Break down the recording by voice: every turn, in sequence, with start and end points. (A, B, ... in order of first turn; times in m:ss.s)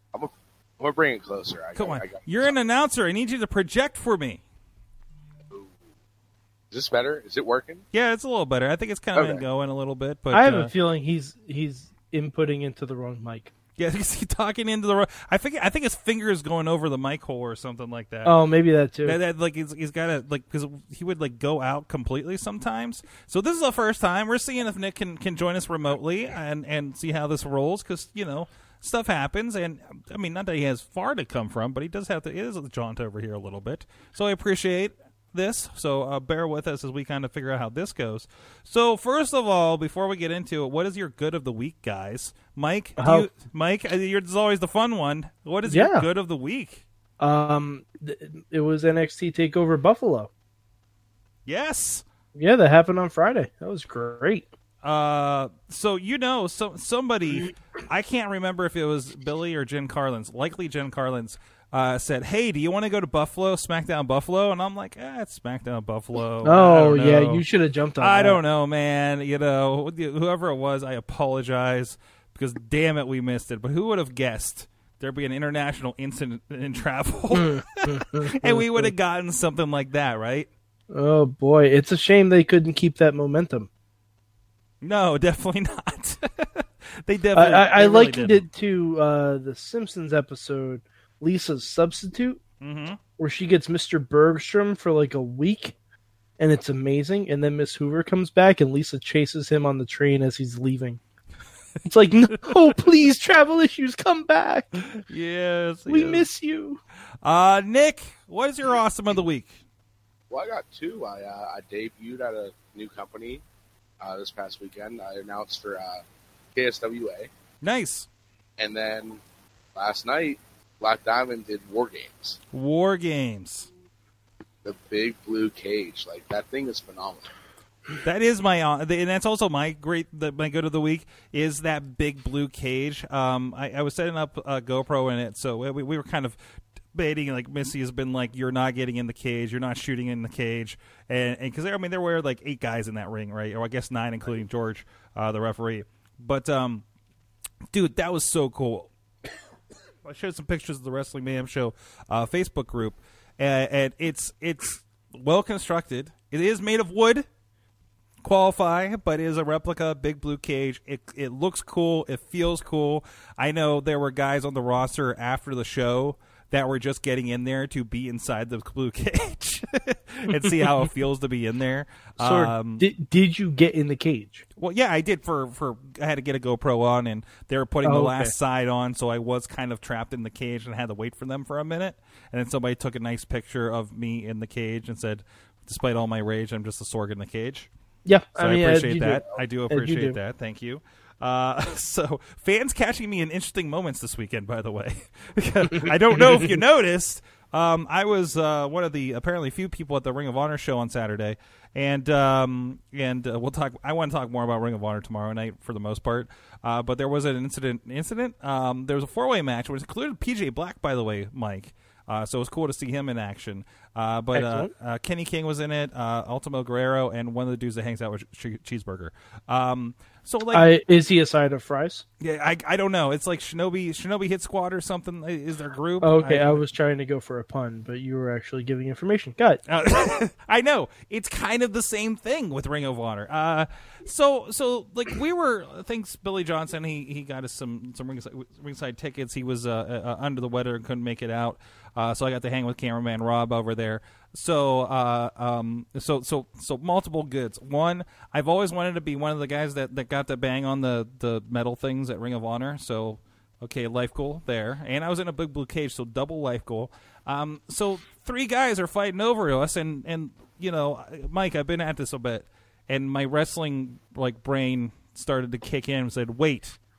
0:00.1-0:02.5 A
0:01.8-0:04.4 B
0:06.7-0:07.8 A
0:07.9-0:10.7 B
0:09.2-0:09.4 A
0:10.3-0:13.5 C
0:13.8-0:18.4 B
0:18.2-0:19.2 C
0:19.0-0:46.8 B
0:43.0-0:43.3 C
0:45.7-0:46.1 C
0:47.2-0:50.3 C
0:51.5-0:52.0 B
0:52.3-0:54.5 C
0:54.8-1:07.4 B
1:06.4-1:08.4 C
1:08.0-1:20.5 B
1:17.3-1:18.9 C
1:20.9-1:23.7 C
1:24.8-1:28.5 B
1:27.4-1:32.4 C
1:32.6-1:33.0 B
1:33.2-1:35.8 C
1:36.4-1:41.0 C
1:41.8-1:44.8 C
1:44.8-1:46.3 B
1:45.9-1:46.8 C
1:47.2-1:49.6 B
1:50.3-1:53.4 A
1:54.0-1:56.0 A
1:56.5-1:57.3 A
1:57.6-1:58.1 B
1:58.6-1:59.2 A
1:59.8-2:02.4 A
2:02.5-2:03.7 B
2:04.6-2:07.3 A
2:08.0-2:16.4 B
2:16.9-2:26.8 B
2:27.7-2:28.9 B
2:30.0-2:37.3 B
2:38.2-2:52.8 B
2:52.2-2:54.4 C
2:54.6-3:07.7 B
2:57.8-2:58.3 C
3:08.0-3:10.2 C
3:08.4-3:40.7 B
3:16.2-3:16.6 C
3:34.3-3:34.7 C
3:40.5-3:42.0 C
3:42.2-3:46.6 B
3:46.0-3:49.6 C
3:49.7-4:26.8 B